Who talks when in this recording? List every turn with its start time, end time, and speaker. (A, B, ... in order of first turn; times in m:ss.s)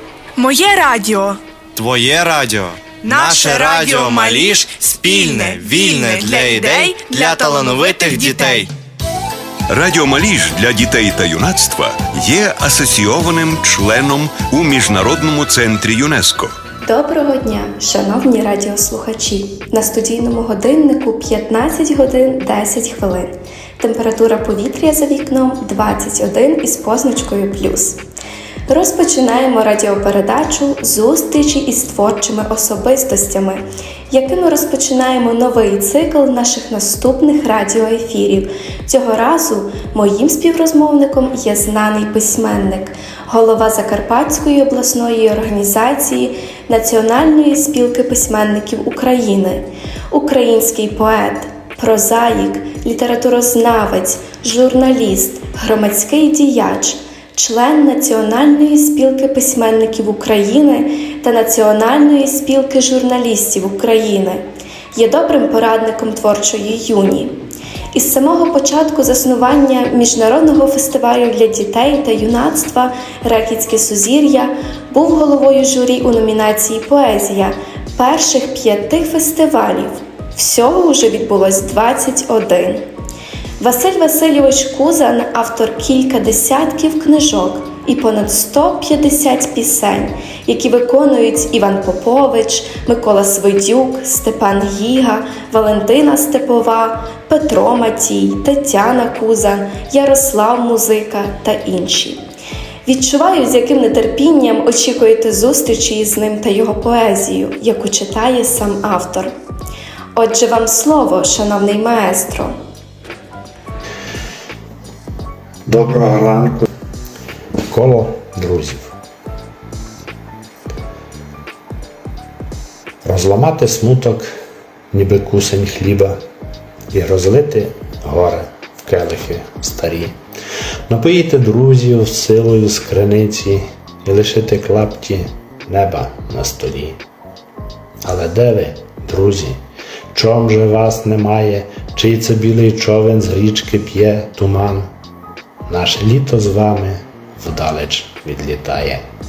0:00.4-0:01.4 A
0:01.8-0:08.7 B
0:02.9-0:08.7 A
0:09.7-0:16.5 C
0:16.8-0:28.0 D
0:28.7-1:22.9 D
1:23.6-1:42.3 D
1:42.8-1:49.4 D
1:50.2-1:52.6 D
1:55.7-1:56.7 E
1:57.7-1:59.0 E
2:03.0-2:04.3 E
2:04.9-2:06.2 E
2:06.9-2:10.2 E
2:10.9-2:17.0 E
2:18.0-2:19.6 E
2:20.1-2:24.9 E
2:25.7-2:29.0 E